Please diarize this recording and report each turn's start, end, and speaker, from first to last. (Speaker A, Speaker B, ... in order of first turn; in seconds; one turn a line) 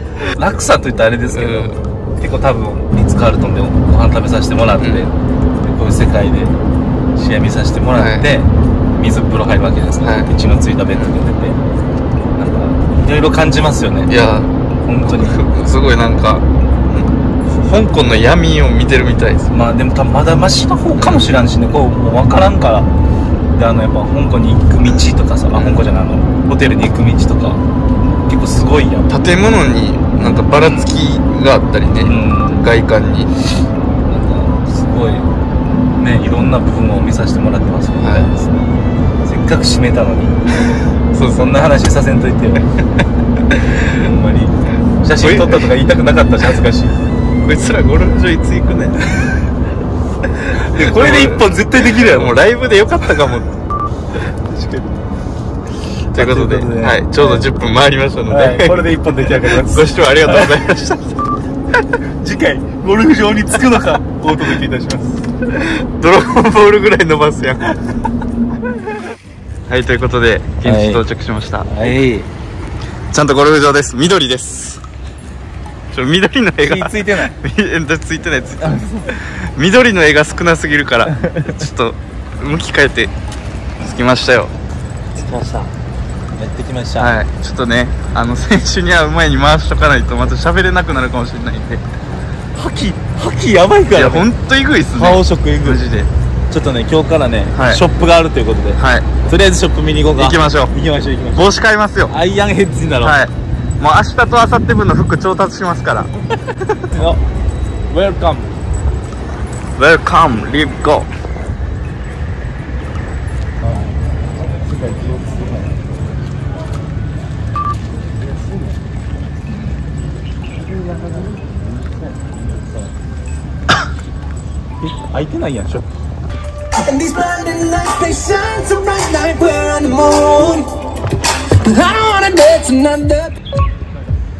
Speaker A: 0.2-6.5
Speaker B: 1.3-1.8
Speaker B: 4.8-5.1
Speaker A: 7.1-11.6
Speaker B: 7.9-8.3
Speaker B: 10.0-10.3
Speaker A: 12.3-14.1
Speaker B: 14.1-14.5
Speaker A: 14.8-15.4
Speaker B: 15.0-19.5
Speaker A: 19.5-22.9
Speaker B: 21.0-21.4
Speaker A: 23.5-29.1
Speaker B: 24.8-25.8
Speaker B: 29.1-33.3
Speaker A: 30.1-30.9
Speaker A: 32.0-32.7
Speaker A: 34.0-35.3
Speaker A: 36.0-38.7
Speaker B: 38.0-38.3
Speaker A: 39.2-40.4
Speaker B: 41.1-41.6
Speaker A: 41.3-42.7
Speaker A: 43.8-46.9
Speaker B: 45.1-45.7
Speaker B: 47.4-49.0
Speaker B: 50.3-53.5
Speaker A: 50.6-52.5
Speaker A: 54.3-54.9
Speaker A: 56.1-57.5
Speaker B: 56.1-61.2
Speaker A: 58.3-60.6
Speaker A: 62.1-65.3
Speaker B: 65.5-67.7
Speaker B: 69.7-71.9
Speaker A: 70.6-71.0
Speaker A: 71.6-72.3
Speaker B: 73.1-74.8
Speaker B: 75.9-83.1
Speaker A: 76.6-77.3
Speaker A: 78.6-79.1
Speaker A: 81.1-81.6
Speaker B: 83.8-84.5
Speaker A: 85.1-85.7
Speaker A: 86.3-87.2
Speaker B: 87.0-91.8
Speaker A: 92.5-94.3
Speaker B: 93.9-96.1
Speaker A: 94.9-95.8
Speaker A: 96.5-101.5
Speaker B: 97.5-97.8
Speaker B: 98.8-99.1
Speaker B: 100.1-100.7
Speaker B: 101.3-102.1
Speaker A: 102.1-103.2
Speaker B: 103.0-106.1
Speaker A: 106.9-107.2
Speaker A: 107.9-108.6
Speaker B: 109.8-111.1
Speaker A: 113.6-113.9
Speaker A: 114.5-115.7
Speaker A: 120.6-122.6
Speaker A: 124.8-125.8
Speaker C: 126.7-130.9
Speaker C: 131.5-133.4